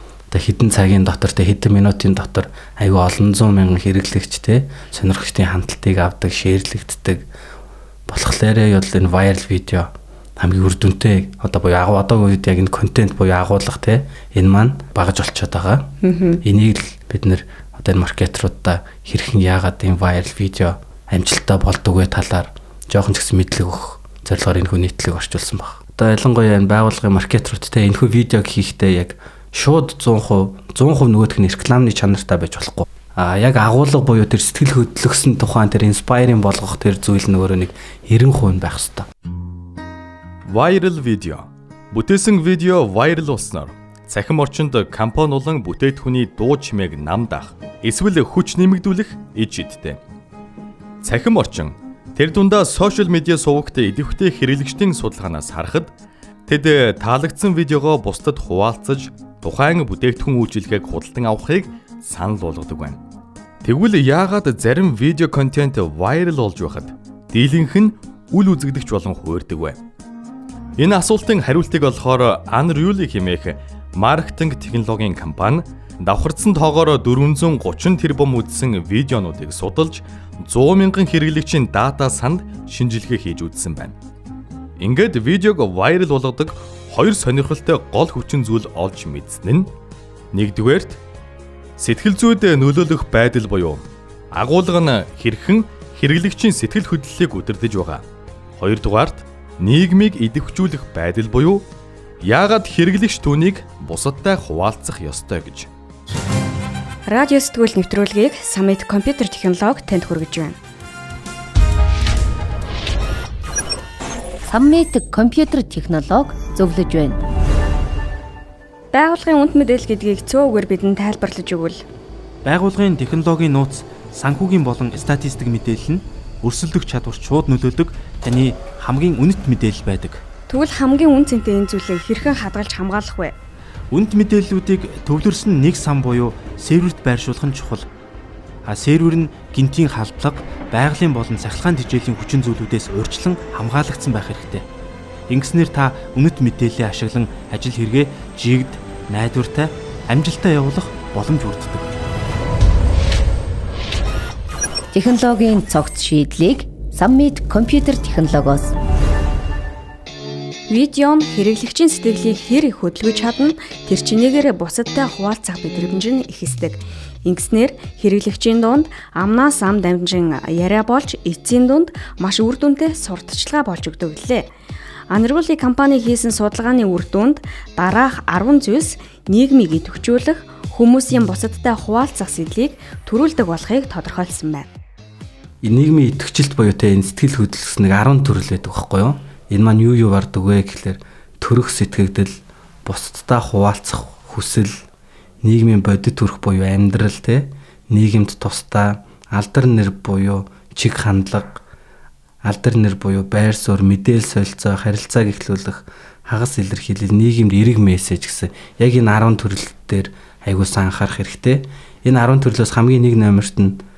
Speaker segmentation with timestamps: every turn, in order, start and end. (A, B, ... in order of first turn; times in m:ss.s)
0:00.3-0:07.2 A
0:08.1-0:15.9 A
0:16.0-0:16.4 B
0:16.4-0:39.0 A
0:40.5-0:50.0 C
0:51.0-0:55.9 C
0:56.5-1:03.0 C
1:03.6-1:09.8 C
1:10.8-1:23.9 C
1:24.8-1:29.7 C
1:30.3-1:31.0 C
1:31.8-1:38.0 C
1:38.6-1:41.6 C
1:42.2-1:45.7 C
1:47.1-1:50.6 B
1:54.4-1:57.2 D
1:58.9-2:01.8 B
2:02.4-2:10.2 E
2:10.5-2:13.3 B
2:13.9-2:17.8 E
2:18.6-2:24.6 E
2:25.3-2:31.8 E
2:34.9-2:38.7 D
2:40.7-2:54.5 B
2:55.1-3:04.7 B
3:05.6-3:14.8 A
3:15.4-3:21.6 A
3:22.4-3:33.8 A